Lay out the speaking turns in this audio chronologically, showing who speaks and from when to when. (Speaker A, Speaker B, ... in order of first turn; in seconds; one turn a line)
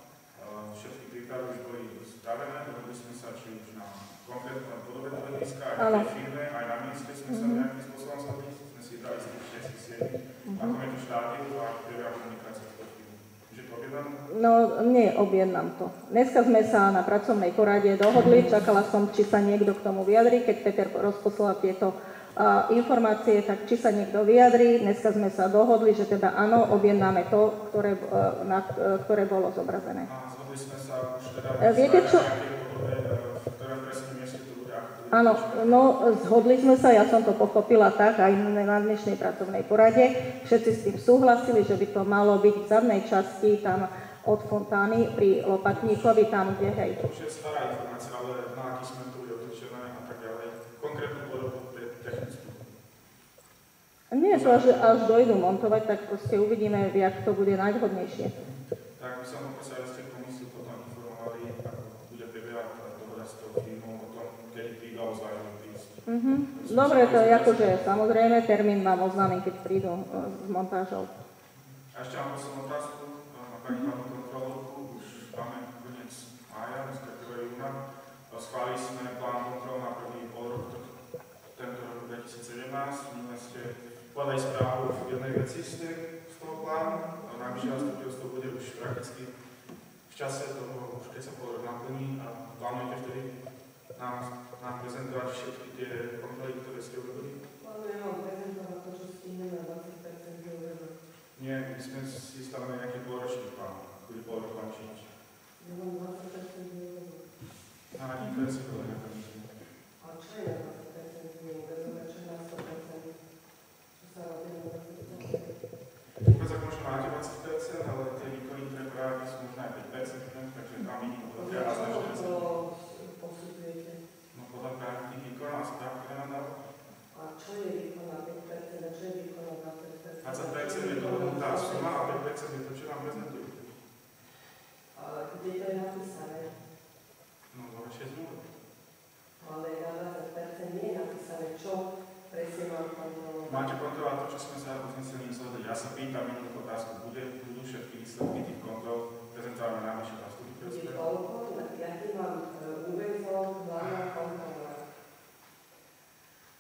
Speaker A: 0.3-14.2
Speaker B: 5.8-6.1
Speaker B: 7.3-7.7
Speaker B: 10.5-10.8
Speaker B: 14.3-30.1
Speaker A: 30.0-35.9
Speaker B: 31.6-32.3
Speaker B: 35.1-47.0
Speaker A: 45.7-46.2
Speaker A: 46.9-52.7
Speaker B: 54.1-58.3
Speaker A: 54.3-55.3
Speaker A: 58.5-67.8
Speaker B: 66.1-71.1
Speaker A: 71.9-80.9
Speaker A: 81.5-89.3
Speaker C: 87.2-87.8
Speaker A: 90.1-93.3
Speaker A: 93.9-97.4
Speaker C: 97.6-101.0
Speaker A: 101.4-105.1
Speaker C: 105.6-107.3
Speaker A: 107.9-109.5
Speaker C: 110.0-113.2
Speaker C: 114.0-115.6
Speaker A: 116.2-122.4
Speaker C: 121.3-124.0
Speaker A: 124.3-126.6
Speaker C: 127.1-132.2
Speaker A: 130.2-133.8
Speaker C: 134.9-136.6
Speaker A: 137.5-138.5
Speaker C: 139.4-143.8
Speaker A: 143.4-151.0
Speaker C: 150.6-154.8